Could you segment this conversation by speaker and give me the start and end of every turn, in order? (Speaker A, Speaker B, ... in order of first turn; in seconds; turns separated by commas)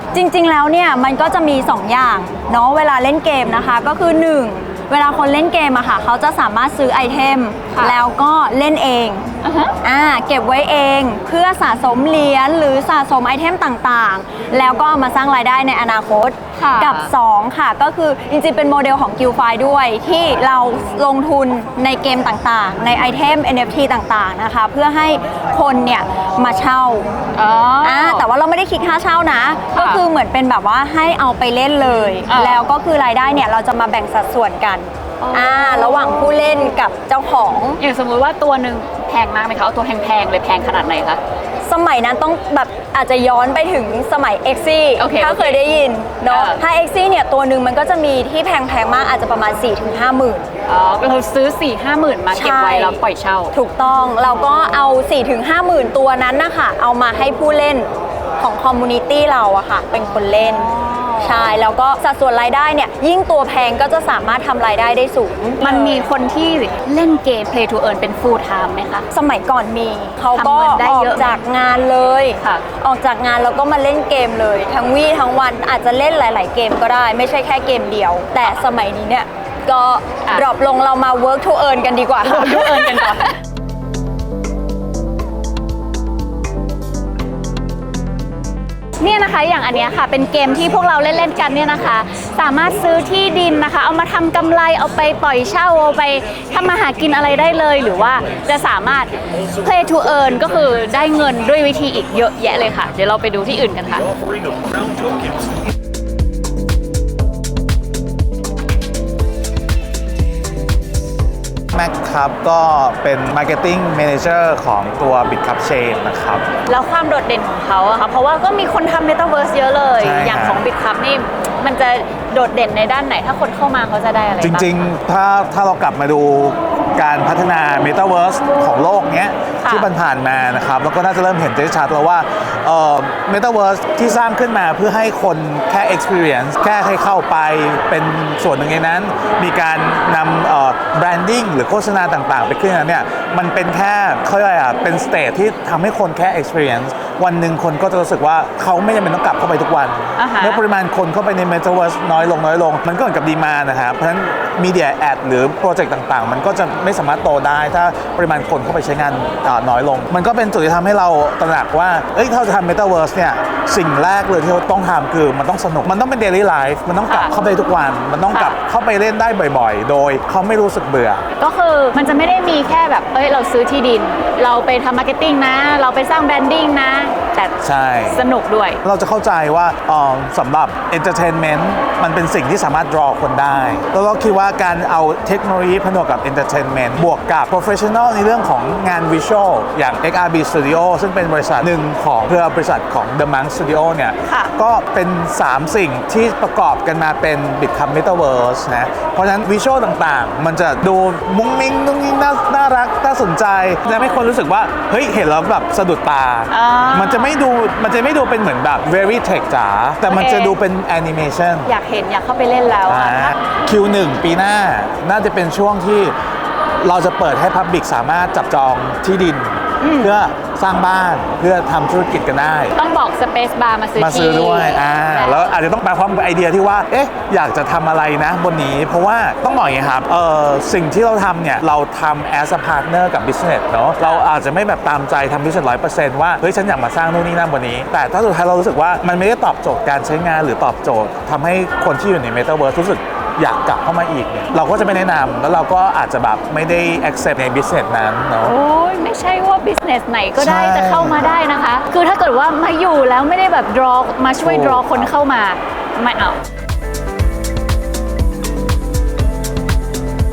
Speaker A: 0.1-9.2, Speaker B: 9.4-9.7, Speaker A: 9.8-27.1, Speaker B: 16.6-17.1, Speaker B: 27.3-28.2, Speaker A: 27.8-37.8, Speaker B: 29.7-30.0, Speaker B: 32.3-32.6, Speaker B: 35.2-36.3, Speaker B: 37.8-41.2, Speaker A: 41.6-50.5, Speaker B: 45.0-45.6, Speaker B: 46.3-46.6, Speaker B: 50.7-53.5, Speaker A: 52.3-53.0, Speaker A: 53.5-57.9, Speaker A: 58.4-66.0, Speaker B: 60.4-61.4, Speaker B: 65.6-69.1, Speaker A: 69.1-83.1, Speaker B: 70.3-71.3, Speaker B: 82.2-83.3, Speaker B: 89.0-104.1, Speaker C: 111.7-116.5, Speaker B: 116.7-124.7, Speaker C: 120.0-120.7, Speaker C: 124.4-171.2, Speaker B: 129.6-129.9, Speaker B: 150.2-150.6, Speaker B: 167.1-167.3, Speaker B: 168.3-168.6, Speaker B: 171.4-178.8, Speaker C: 177.6-178.2, Speaker C: 178.8-211.7, Speaker B: 194.2-194.5, Speaker B: 203.8-204.2, Speaker B: 206.5-207.4, Speaker B: 210.0-210.6, Speaker B: 211.6-213.3, Speaker C: 212.9-216.1, Speaker C: 216.8-222.7, Speaker B: 219.8-220.1, Speaker B: 222.8-225.5, Speaker C: 224.0-248.6, Speaker B: 248.4-256.4, Speaker C: 250.4-251.3, Speaker C: 254.4-255.1